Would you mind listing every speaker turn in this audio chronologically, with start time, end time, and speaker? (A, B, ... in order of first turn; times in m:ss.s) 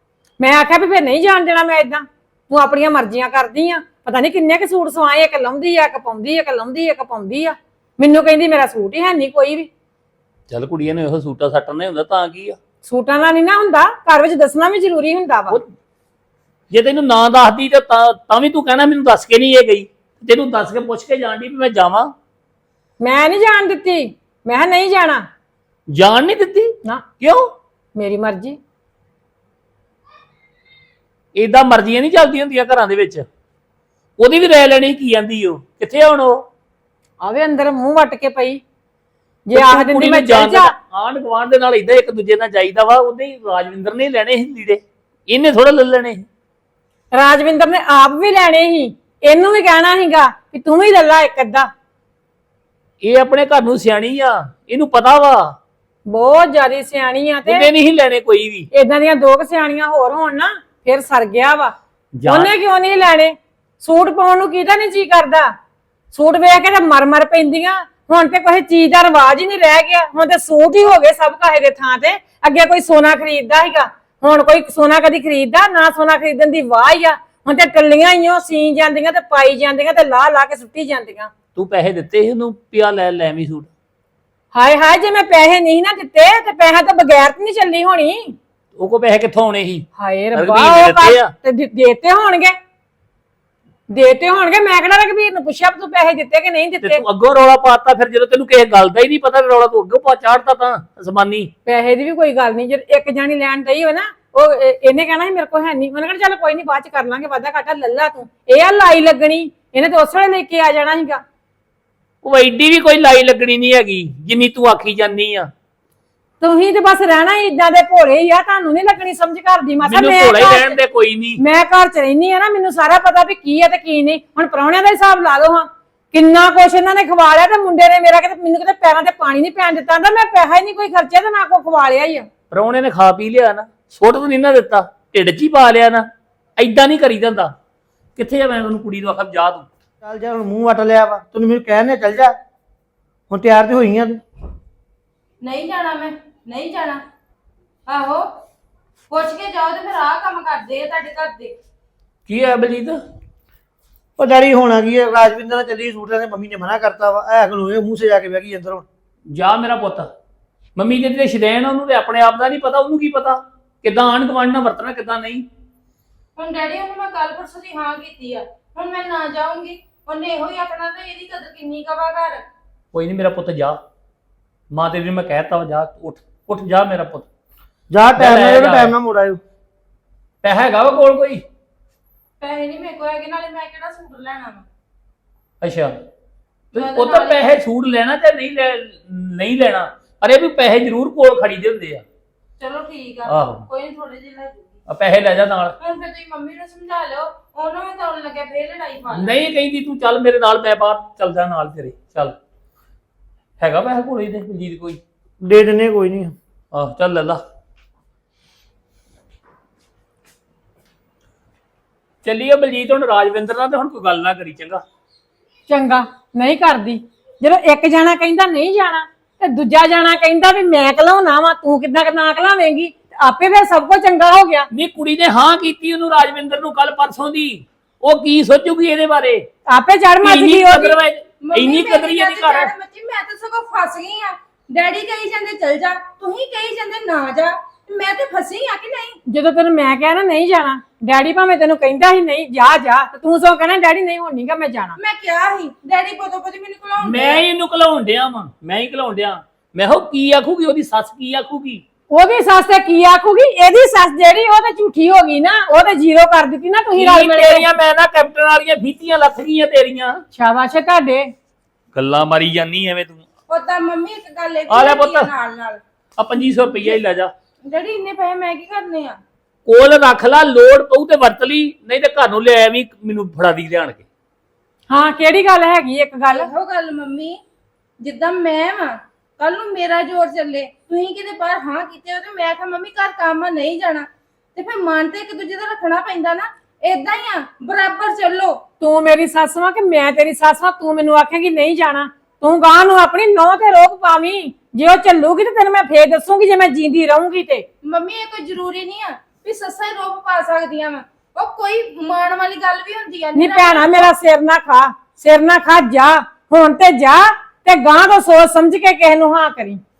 0:00.4-0:09.7 A
0:10.5-0:12.6 B
0:12.8-0:15.6 A
0:16.7-0:22.1 B
0:23.0-0:25.2 A
0:25.9-0:27.5 B
0:28.0-0:28.6 A
0:31.3-0:33.2 B
0:34.2-0:36.4 B
0:37.2-0:38.6 A
0:39.5-0:40.7 A
0:39.5-0:46.2 B
0:47.1-0:51.7 A
0:53.0-0:55.5 B
0:56.1-0:57.7 A
0:57.4-0:58.7 B
0:58.7-1:05.5 A
1:02.2-1:02.5 B
1:06.1-1:21.3 A
1:21.5-1:23.7 B
1:24.5-1:28.3 A
1:28.8-1:31.3 B
1:30.0-1:32.6 A
1:33.9-1:37.0 A
1:36.8-1:41.5 B
1:41.6-1:51.2 A
1:52.2-1:55.5 B
1:56.4-2:00.8 A
1:59.8-2:01.4 B
2:01.4-2:12.3 A
2:12.5-2:16.0 B
2:16.6-2:17.5 B
2:18.2-2:19.7 B
2:20.0-2:22.4 C
2:23.3-2:24.2 C
2:25.4-2:27.0 D
2:27.9-2:28.3 D
2:29.1-2:31.6 D
2:32.3-2:33.0 B
2:34.2-2:38.8 C
2:39.3-2:40.1 B
2:40.8-2:45.4 B
2:46.4-2:52.5 D
2:52.9-2:53.8 B
2:54.7-2:57.3 B
2:57.9-2:59.4 C
2:58.2-2:58.9 B
3:00.4-3:01.4 B
3:02.4-3:04.6 D
3:05.6-3:05.9 B
3:06.7-3:12.0 B
3:06.7-3:07.4 D
3:12.6-3:14.7 D
3:13.2-3:13.6 B
3:14.9-3:15.7 B
3:15.8-3:19.3 D
3:19.1-3:22.4 B
3:23.6-3:25.0 B
3:25.4-3:26.3 C
3:26.7-3:27.4 B
3:32.2-3:34.8 B
3:35.7-3:44.7 A
3:44.7-3:49.4 B
3:49.7-3:51.0 A
3:50.2-3:52.7 B
3:51.4-3:59.2 D
3:59.3-4:05.0 A
4:05.0-4:07.4 D
4:07.0-4:11.8 B
4:12.1-4:17.6 A
4:17.0-4:20.2 B
4:20.3-4:21.3 A
4:21.9-4:23.2 B
4:23.5-4:25.8 D
4:24.7-4:25.3 B
4:26.2-4:27.3 B
4:27.6-4:29.2 D
4:29.6-4:34.0 B
4:34.9-4:36.5 A
4:36.3-4:37.4 D
4:38.0-4:48.6 D
4:48.8-4:57.6 A
4:57.8-5:04.1 D
5:03.4-5:09.8 A